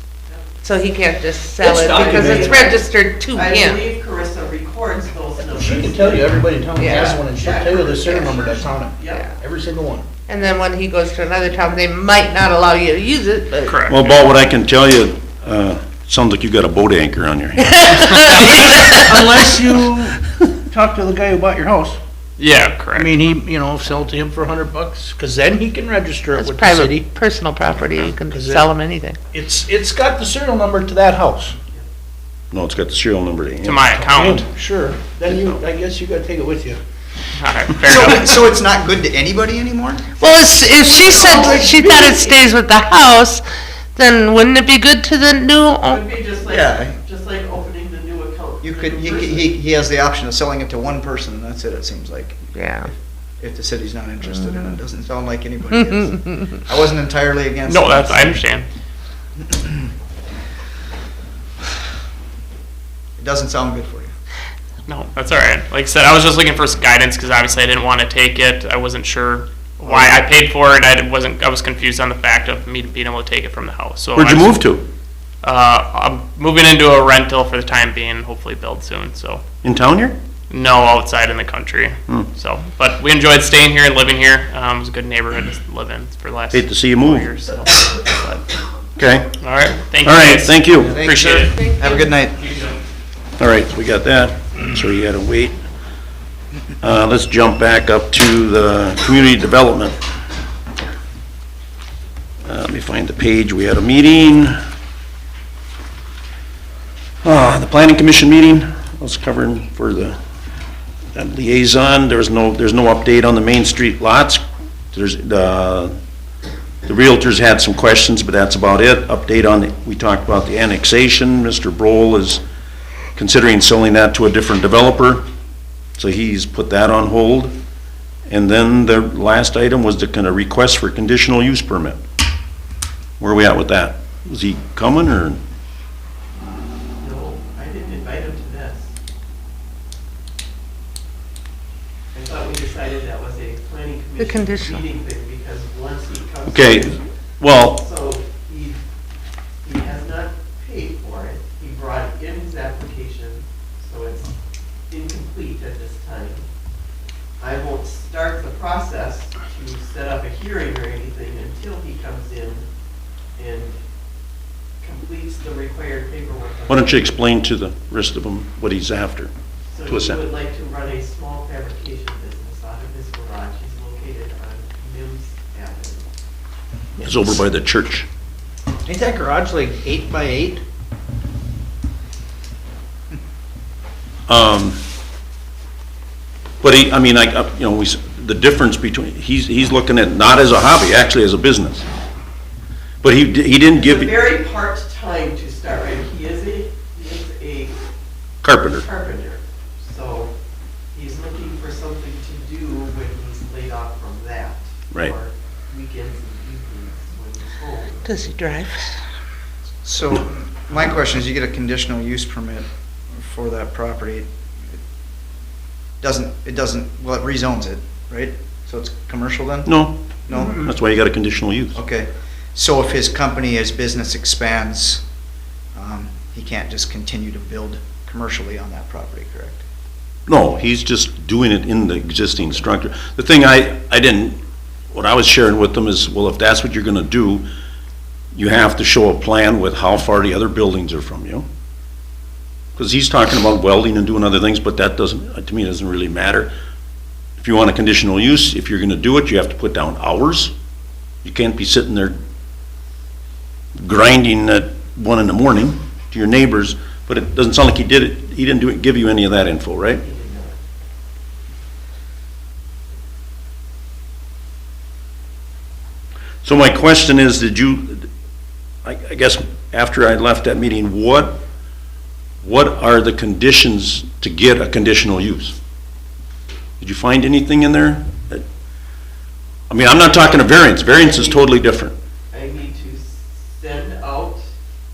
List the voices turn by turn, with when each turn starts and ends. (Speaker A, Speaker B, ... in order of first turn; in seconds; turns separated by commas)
Speaker A: 0.3-0.5, Speaker B: 0.6-3.8, Speaker C: 1.6-2.7, Speaker A: 1.8-9.3, Speaker C: 5.5-10.1, Speaker B: 6.8-7.1, Speaker B: 10.3-13.8, Speaker D: 13.7-14.2, Speaker E: 13.9-17.7, Speaker B: 17.7-18.9, Speaker C: 18.0-22.0, Speaker D: 22.4-23.1, Speaker C: 22.9-27.1, Speaker B: 26.4-29.2, Speaker C: 28.3-28.7, Speaker C: 29.3-31.6, Speaker E: 32.5-33.8, Speaker D: 33.6-34.5, Speaker C: 34.1-36.8, Speaker D: 37.4-38.3, Speaker F: 37.8-40.1, Speaker B: 40.2-43.4, Speaker A: 40.2-42.5, Speaker B: 43.9-46.0, Speaker A: 45.9-49.5, Speaker F: 46.5-47.0, Speaker F: 48.6-52.9, Speaker B: 52.5-52.9, Speaker F: 53.4-58.4, Speaker D: 57.7-58.6, Speaker F: 59.4-59.9, Speaker F: 63.2-64.1, Speaker D: 64.9-74.6, Speaker E: 74.1-74.9, Speaker D: 75.4-79.4, Speaker E: 79.6-80.2, Speaker D: 80.5-88.5, Speaker E: 86.5-87.3, Speaker E: 89.0-89.3, Speaker D: 89.3-91.6, Speaker E: 90.0-90.9, Speaker F: 90.8-92.4, Speaker B: 91.6-92.1, Speaker D: 92.4-92.8, Speaker E: 93.4-95.5, Speaker E: 96.8-99.9, Speaker E: 102.4-104.6, Speaker E: 107.2-110.2, Speaker E: 111.1-115.9, Speaker E: 116.8-122.4, Speaker E: 123.1-125.2, Speaker E: 126.0-127.5, Speaker E: 128.3-132.0, Speaker E: 133.2-135.4, Speaker A: 137.0-138.9, Speaker A: 142.1-147.0, Speaker B: 144.2-144.8, Speaker E: 146.5-147.8, Speaker A: 147.7-148.8, Speaker A: 149.6-154.3, Speaker A: 154.9-156.4, Speaker A: 157.4-162.7, Speaker A: 163.3-163.8, Speaker A: 164.8-167.1, Speaker E: 166.7-169.3, Speaker A: 169.7-176.1, Speaker E: 169.8-170.2, Speaker E: 177.0-178.1, Speaker C: 178.8-180.6, Speaker E: 184.3-184.8, Speaker E: 186.6-191.8, Speaker E: 193.0-194.1, Speaker A: 193.7-197.8, Speaker E: 198.4-198.9, Speaker A: 198.6-200.3, Speaker A: 200.9-208.2, Speaker B: 208.0-209.0, Speaker F: 209.8-214.3, Speaker F: 216.0-219.8, Speaker E: 219.7-219.9, Speaker F: 220.3-220.7, Speaker E: 220.6-221.8, Speaker F: 221.7-225.0, Speaker F: 225.7-229.6, Speaker E: 230.3-234.4, Speaker E: 234.9-237.4, Speaker E: 238.3-241.4, Speaker E: 242.8-246.5, Speaker E: 247.4-250.5, Speaker E: 251.2-252.2, Speaker E: 253.8-260.0, Speaker A: 260.0-260.6, Speaker E: 266.4-268.1, Speaker E: 268.8-271.4, Speaker E: 272.4-275.6, Speaker E: 276.8-278.4, Speaker E: 279.7-281.9, Speaker A: 281.0-281.4, Speaker A: 282.3-284.4